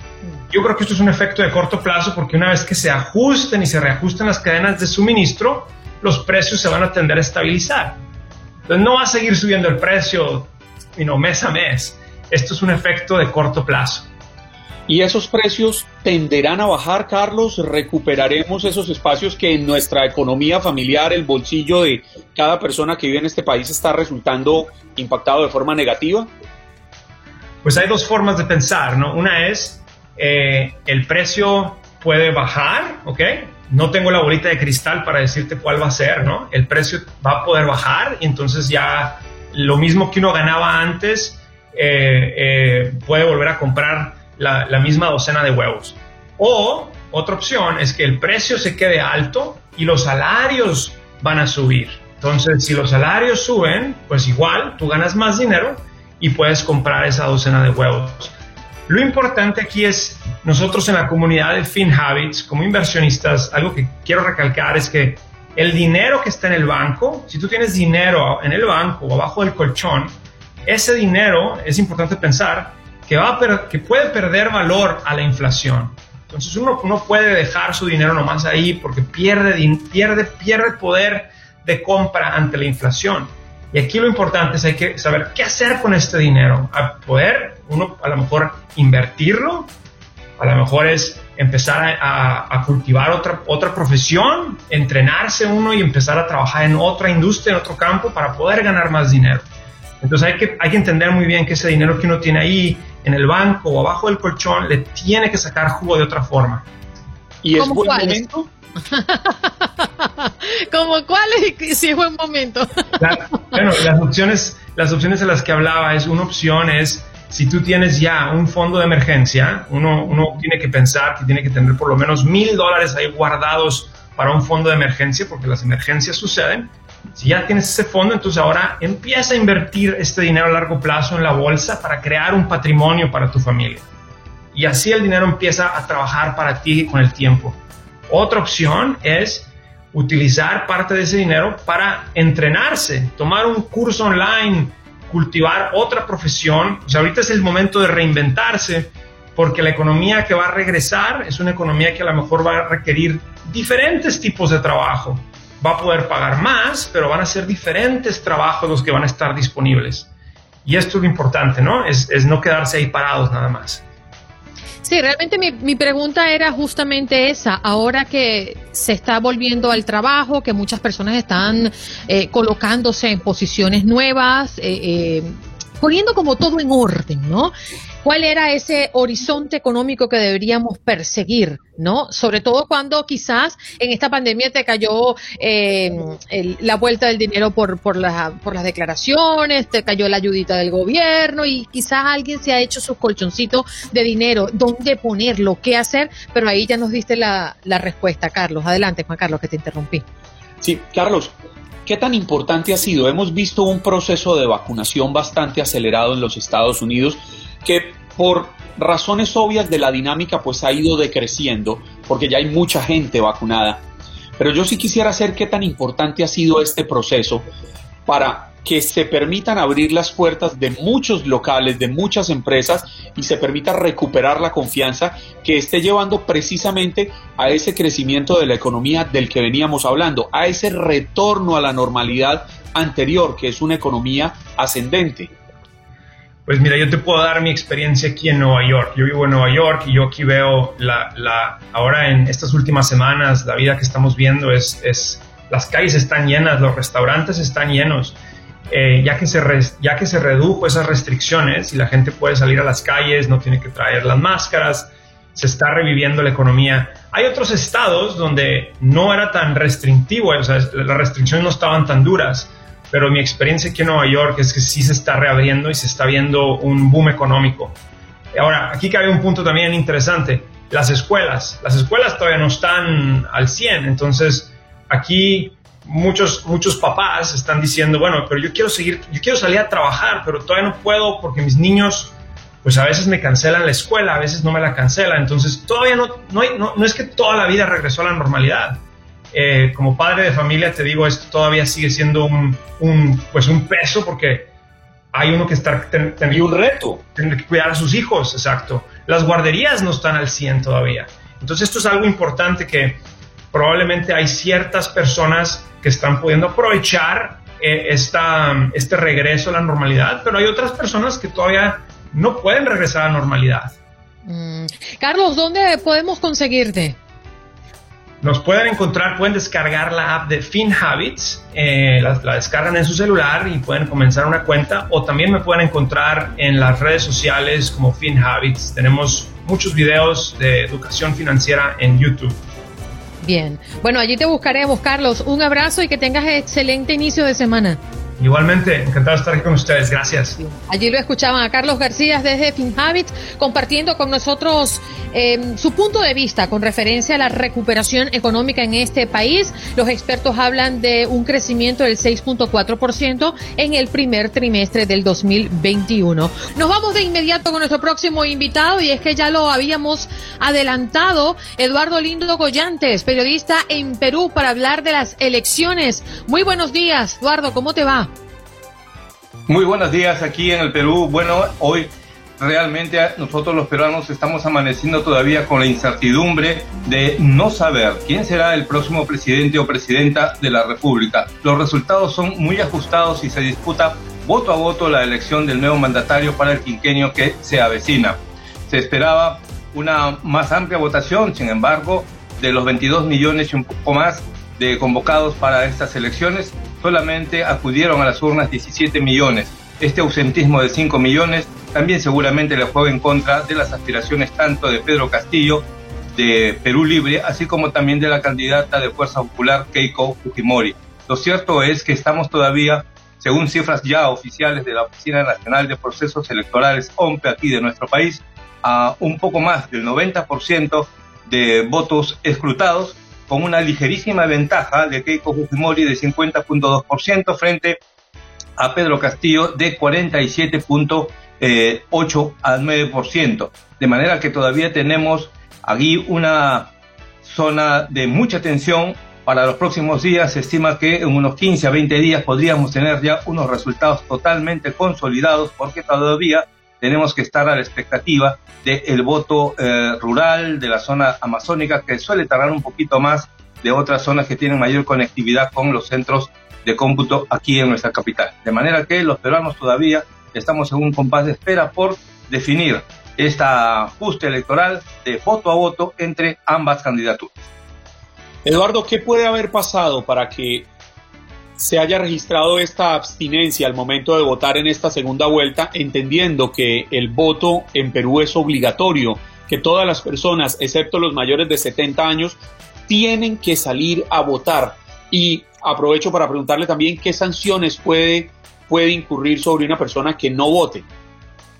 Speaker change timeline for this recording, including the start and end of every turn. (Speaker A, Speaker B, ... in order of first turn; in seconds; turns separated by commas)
Speaker A: 0.5-8.0, Speaker A: 8.7-14.1, Speaker B: 14.9-26.3, Speaker A: 27.6-58.3, Speaker A: 58.9-89.7, Speaker A: 90.4-99.5, Speaker A: 100.0-106.6, Speaker B: 107.4-108.3, Speaker C: 107.6-112.8, Speaker A: 113.0-133.8, Speaker A: 134.5-137.6, Speaker A: 138.1-160.1, Speaker A: 160.6-163.8, Speaker C: 164.8-177.5, Speaker C: 178.0-200.0, Speaker B: 200.6-201.3, Speaker B: 201.8-213.8, Speaker B: 214.4-217.5, Speaker B: 218.1-235.3, Speaker A: 236.5-248.2, Speaker A: 248.7-267.8, Speaker A: 268.3-294.5, Speaker A: 295.1-296.6, Speaker B: 296.3-297.0, Speaker A: 297.1-313.8, Speaker C: 314.3-317.0, Speaker A: 318.2-332.4, Speaker C: 333.2-337.8, Speaker A: 338.2-340.4, Speaker C: 340.4-368.1, Speaker D: 369.5-427.8, Speaker D: 428.6-436.7, Speaker D: 437.2-467.5, Speaker B: 468.4-470.7, Speaker B: 471.6-490.9